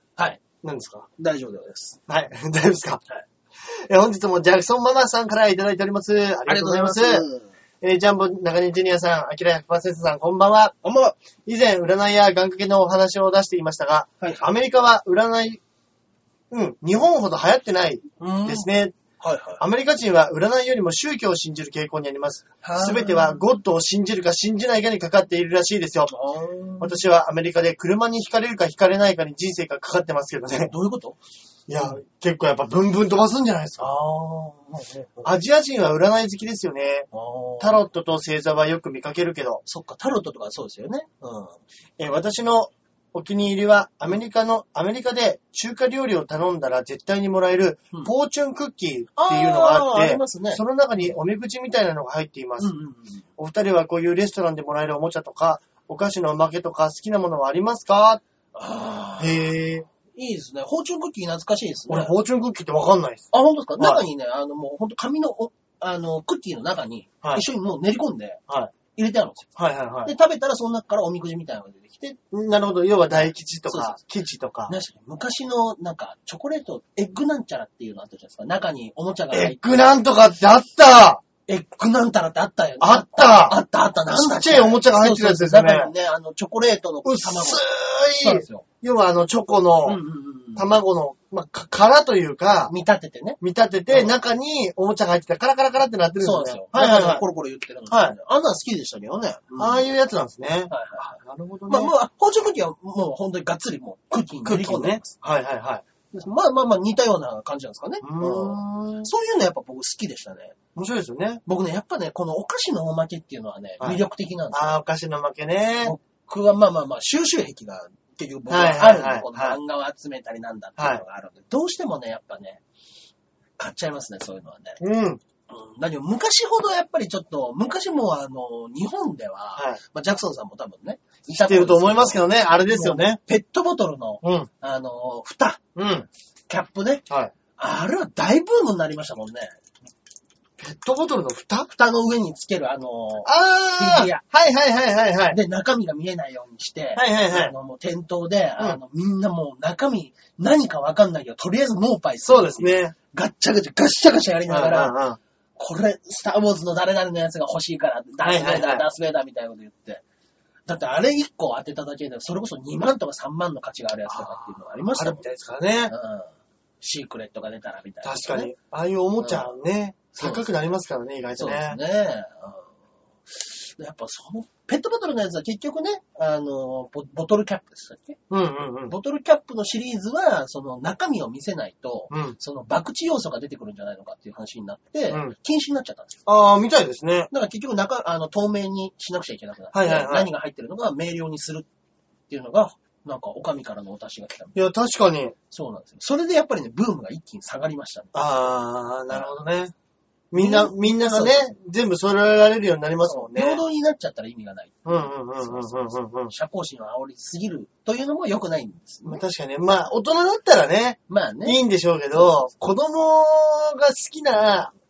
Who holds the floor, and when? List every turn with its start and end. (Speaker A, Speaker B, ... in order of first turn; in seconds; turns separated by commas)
Speaker A: 0.2-0.4, Speaker B: 0.6-1.1, Speaker A: 1.2-2.0, Speaker B: 2.1-3.0, Speaker B: 3.6-7.2, Speaker A: 6.5-7.5, Speaker B: 7.8-10.8, Speaker A: 10.8-11.2, Speaker B: 11.4-15.6, Speaker A: 14.2-14.5, Speaker B: 16.5-18.9, Speaker A: 18.2-19.6, Speaker B: 19.6-26.1, Speaker A: 22.6-23.4, Speaker A: 26.1-27.0, Speaker B: 26.8-30.7, Speaker A: 30.6-31.2, Speaker B: 31.7-33.9, Speaker A: 33.8-35.3, Speaker B: 35.2-37.1, Speaker A: 37.1-37.8, Speaker B: 37.6-39.6, Speaker A: 39.6-41.6, Speaker B: 42.0-52.7, Speaker A: 49.1-50.6, Speaker A: 52.6-53.2, Speaker B: 53.4-58.2, Speaker A: 58.5-59.6, Speaker B: 59.2-59.9, Speaker A: 60.1-62.1, Speaker B: 61.9-64.0, Speaker A: 63.3-68.4, Speaker A: 68.9-69.5, Speaker B: 69.5-70.1, Speaker A: 70.0-72.2, Speaker B: 72.3-74.7, Speaker A: 73.7-74.0, Speaker A: 74.7-80.0, Speaker B: 79.3-81.2, Speaker A: 81.5-87.6, Speaker B: 82.8-83.6, Speaker B: 84.1-85.9, Speaker B: 87.0-90.0, Speaker A: 88.2-88.6, Speaker A: 89.8-90.7, Speaker B: 90.5-92.7, Speaker A: 92.7-94.1, Speaker B: 93.4-97.2, Speaker A: 96.2-99.8, Speaker B: 97.9-98.2, Speaker B: 99.6-101.9, Speaker A: 100.7-105.1, Speaker B: 104.4-105.8, Speaker A: 106.1-110.5, Speaker B: 108.0-109.1, Speaker B: 110.7-111.4, Speaker A: 111.5-114.8, Speaker B: 113.8-115.9, Speaker A: 115.8-122.6, Speaker B: 118.5-119.6, Speaker A: 123.6-124.8, Speaker B: 124.8-125.2, Speaker A: 125.5-135.6, Speaker B: 131.3-133.2, Speaker B: 134.2-134.5, Speaker B: 135.8-136.1, Speaker A: 136.5-137.1, Speaker A: 137.6-139.5, Speaker B: 140.6-141.7, Speaker A: 141.7-144.2, Speaker B: 143.2-145.4, Speaker A: 145.3-155.0, Speaker B: 146.9-147.5, Speaker B: 152.2-152.9, Speaker B: 154.5-155.2, Speaker A: 155.6-160.0, Speaker B: 158.2-158.8, Speaker A: 160.7-165.2, Speaker B: 164.1-165.9, Speaker A: 165.9-168.5, Speaker B: 168.0-171.8, Speaker A: 169.2-169.5, Speaker A: 170.1-170.4, Speaker A: 171.3-172.7, Speaker A: 173.3-178.2, Speaker B: 178.3-178.9, Speaker A: 178.9-186.2, Speaker B: 182.1-182.4, Speaker B: 186.2-187.3, Speaker A: 187.3-191.7, Speaker B: 189.7-190.3, Speaker A: 192.3-194.6, Speaker B: 194.5-195.3, Speaker A: 195.5-198.2, Speaker B: 198.1-199.7, Speaker B: 200.3-203.6, Speaker A: 200.3-201.5, Speaker A: 203.1-209.2, Speaker B: 204.8-206.3, Speaker B: 209.1-214.7, Speaker A: 211.1-211.6, Speaker A: 212.1-212.4